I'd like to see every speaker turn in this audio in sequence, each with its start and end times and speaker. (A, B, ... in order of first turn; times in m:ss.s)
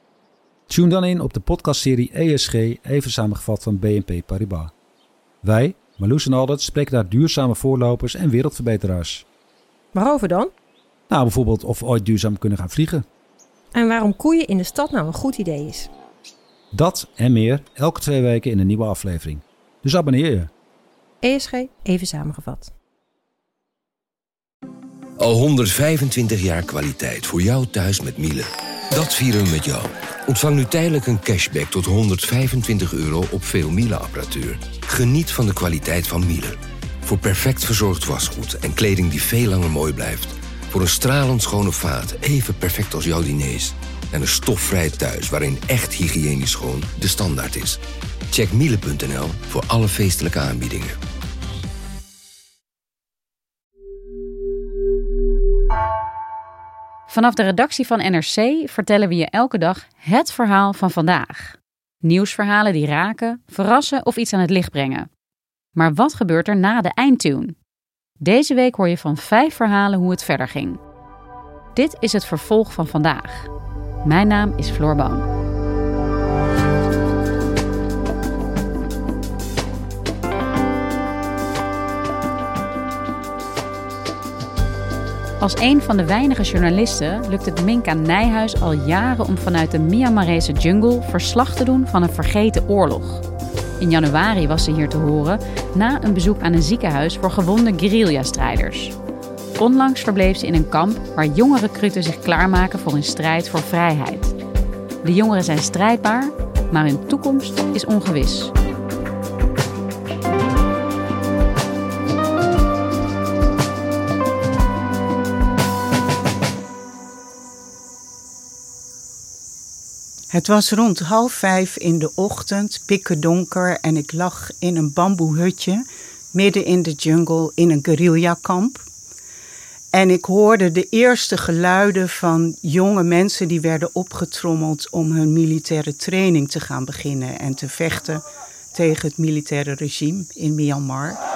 0:00.7-0:04.7 A
0:05.4-0:09.2 A
0:09.9-0:10.5 B
0:11.1-0:13.0 A
0:13.7-0:15.9 B
0:16.7-0:20.5 A
0:21.2-0:22.7 B
0:25.2-0:47.8 C
0:48.3-0:51.0 C
0:57.1-1:05.1 D
1:05.8-1:07.6 D
1:08.2-1:10.8 D
1:11.7-1:13.5 D
1:14.0-1:15.2 D
1:25.4-1:33.2 D
1:33.8-1:38.9 D
1:39.6-1:44.3 D
1:45.0-1:48.5 D
2:00.3-2:08.8 E
2:09.9-2:21.2 E